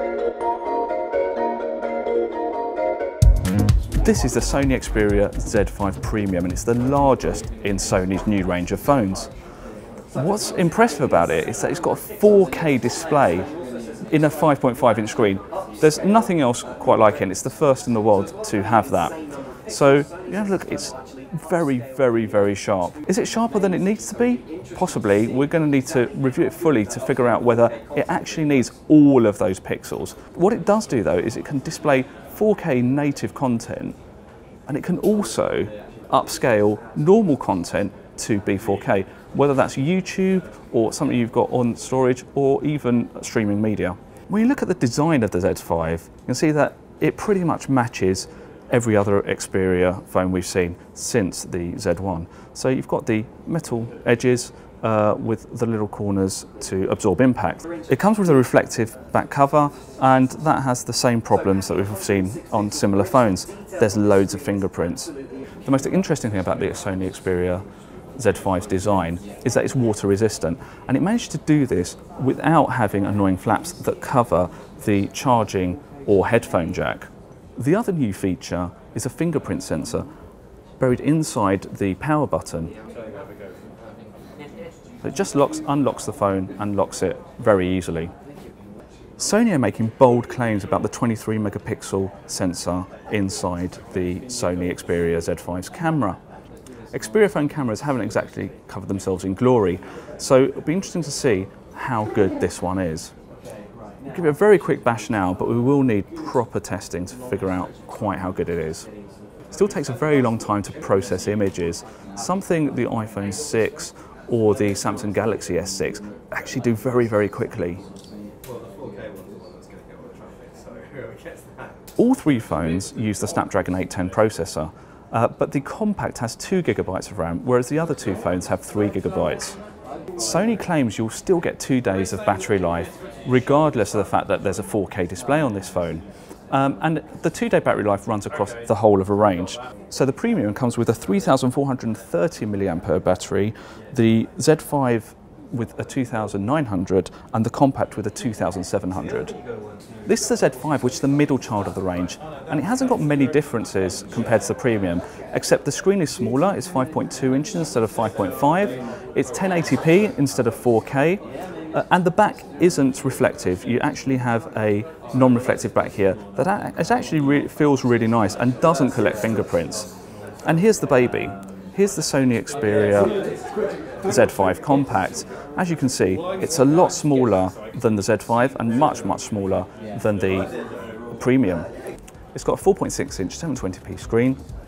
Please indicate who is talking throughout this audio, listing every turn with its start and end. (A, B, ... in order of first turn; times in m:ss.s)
0:04.0-0:09.3 A
0:10.1-0:13.5 A
0:14.1-0:19.2 A
0:19.7-0:34.0 A
0:34.7-1:07.6 A
1:08.2-1:20.1 A
1:20.8-1:22.7 A
1:25.0-1:28.1 A
1:29.2-1:36.2 A
1:36.9-1:43.1 A
1:44.1-1:48.9 A
1:49.5-1:57.8 A
2:02.0-2:09.6 A
2:10.2-2:29.3 A
2:30.1-2:49.9 A
2:50.4-2:53.2 A
2:54.0-3:00.5 A
3:01.1-3:01.7 A
3:02.3-3:04.4 A